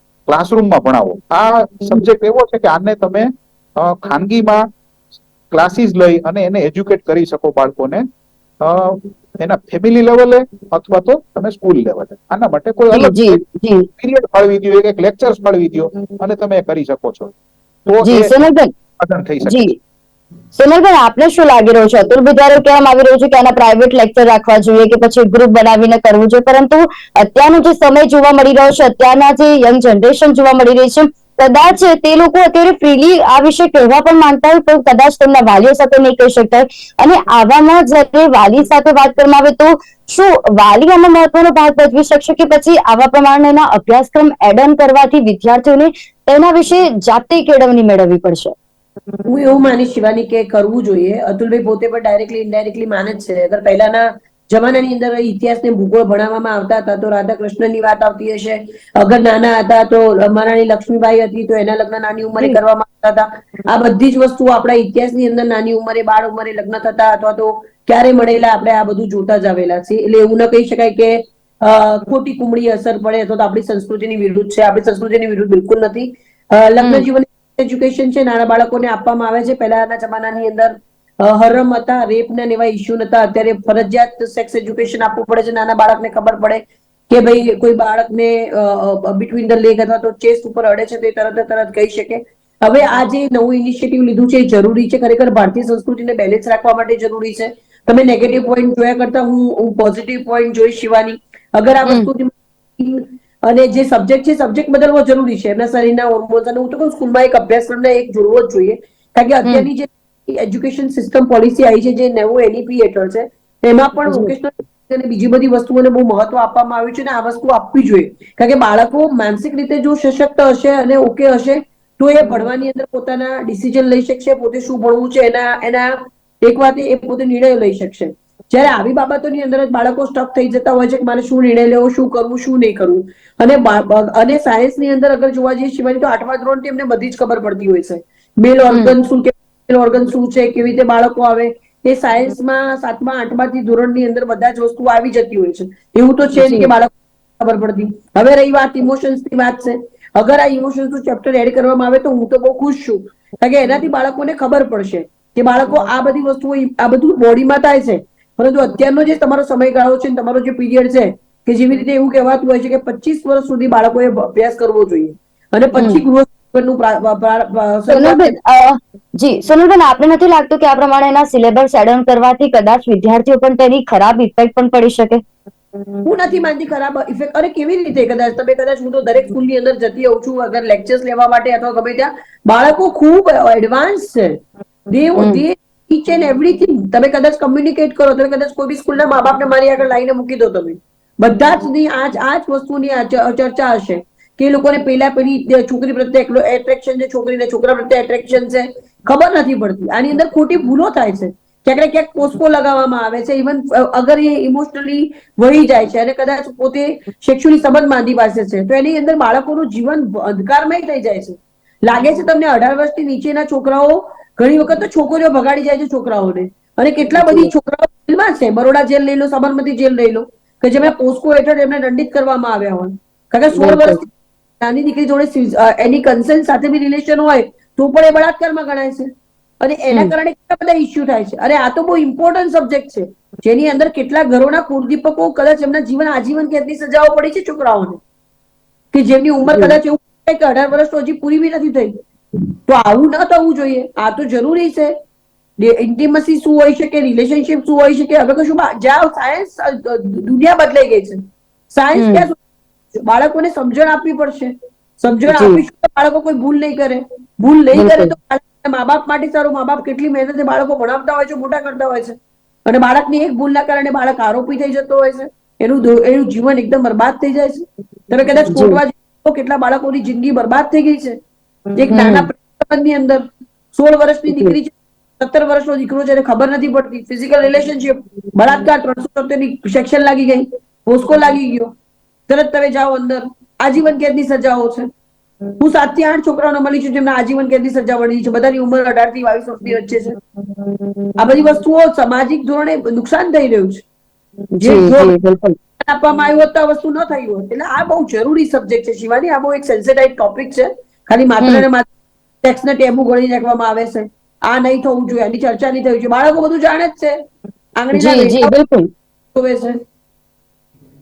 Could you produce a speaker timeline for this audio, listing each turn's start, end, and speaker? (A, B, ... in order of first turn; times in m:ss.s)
0:00.3-0:04.6 A
0:05.5-0:08.0 A
0:08.6-0:13.4 A
0:12.9-0:13.9 B
0:14.0-0:17.3 A
0:17.9-0:18.3 A
0:18.0-0:18.7 B
0:19.0-0:19.8 A
0:19.4-0:19.8 B
0:20.6-0:48.6 B
0:49.3-2:48.4 C
1:16.8-1:17.1 B
1:54.1-1:54.3 B
2:18.7-2:19.0 B
2:26.4-2:26.7 B
2:45.8-2:46.0 B
2:47.9-2:55.2 B
2:56.0-3:58.0 C
3:05.2-3:05.4 B
3:37.2-3:37.5 B
3:43.6-3:44.0 B
3:58.9-4:02.0 C
3:59.5-3:59.8 B
4:02.7-4:04.9 C
4:05.6-4:12.4 C
4:12.0-4:12.3 B
4:12.9-4:22.2 C
4:15.3-4:15.6 B
4:17.8-4:18.1 B
4:22.7-4:31.2 C
4:28.5-4:28.8 B
4:31.8-4:41.7 C
4:31.9-4:32.3 B
4:34.3-4:34.6 B
4:42.3-4:44.9 C
4:45.6-4:50.2 C
4:51.2-4:53.8 C
4:54.6-4:55.6 B
4:54.6-4:55.2 C
4:55.8-5:01.9 C
5:01.4-5:01.7 B
5:02.4-5:07.2 C
5:07.8-5:08.5 C
5:07.9-5:08.9 B
5:09.3-5:09.8 C